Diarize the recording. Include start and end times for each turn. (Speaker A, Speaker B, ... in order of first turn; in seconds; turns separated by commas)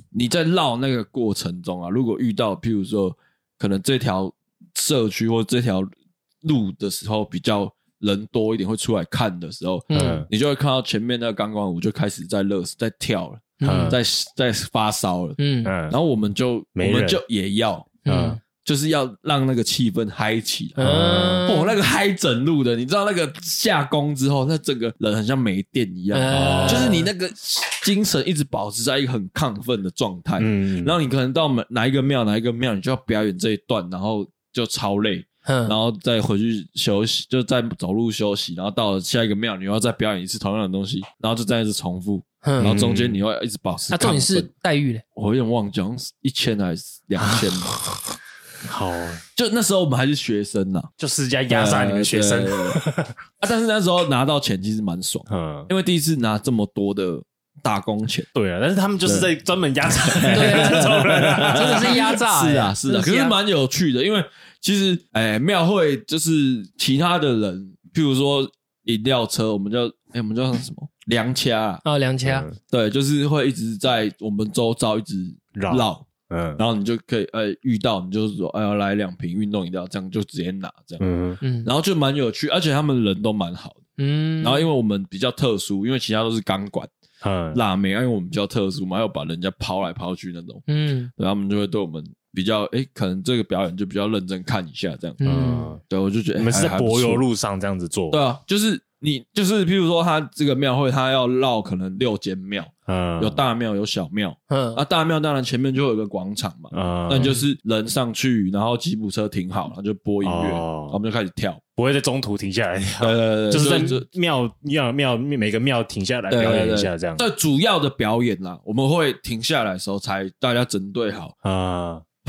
Speaker A: 0.1-5.9, Speaker A: 6.4-18.0, Speaker B: 9.9-10.3, Speaker C: 9.9-10.3, Speaker B: 13.6-14.0, Speaker C: 13.6-14.0, Speaker B: 15.4-15.7, Speaker C: 15.6-15.9, Speaker C: 16.8-17.2, Speaker B: 18.0-18.4, Speaker C: 18.1-18.4, Speaker A: 18.6-44.5, Speaker B: 20.8-21.7, Speaker C: 20.8-21.5, Speaker B: 26.1-27.1, Speaker C: 26.3-27.0, Speaker C: 30.4-30.9, Speaker B: 35.5-35.7, Speaker B: 42.4-42.8, Speaker C: 42.6-43.2, Speaker B: 43.9-45.0, Speaker A: 45.1-47.8, Speaker C: 47.2-47.9, Speaker C: 48.6-49.2, Speaker A: 49.3-50.9, Speaker C: 51.0-53.1, Speaker A: 51.5-52.8, Speaker A: 53.4-58.3, Speaker C: 55.3-55.7, Speaker C: 58.3-62.0, Speaker A: 59.0-59.3, Speaker A: 59.8-71.8, Speaker B: 60.3-63.4, Speaker B: 71.8-72.5, Speaker C: 72.2-72.5, Speaker A: 72.6-81.0, Speaker C: 75.5-76.6, Speaker C: 81.0-81.4, Speaker B: 81.4-81.7, Speaker A: 81.6-83.8, Speaker B: 84.0-84.7, Speaker A: 84.4-86.9, Speaker C: 87.2-87.6, Speaker A: 87.5-90.6, Speaker B: 90.7-91.1, Speaker A: 91.2-97.2, Speaker B: 95.2-95.8, Speaker C: 95.2-95.8, Speaker C: 96.4-98.2, Speaker A: 98.1-111.6, Speaker C: 102.9-103.4, Speaker B: 104.5-104.8, Speaker C: 106.7-107.3, Speaker B: 107.1-107.4, Speaker C: 110.2-111.0, Speaker C: 111.8-117.2, Speaker A: 113.0-114.0, Speaker A: 116.3-121.3, Speaker C: 121.4-122.0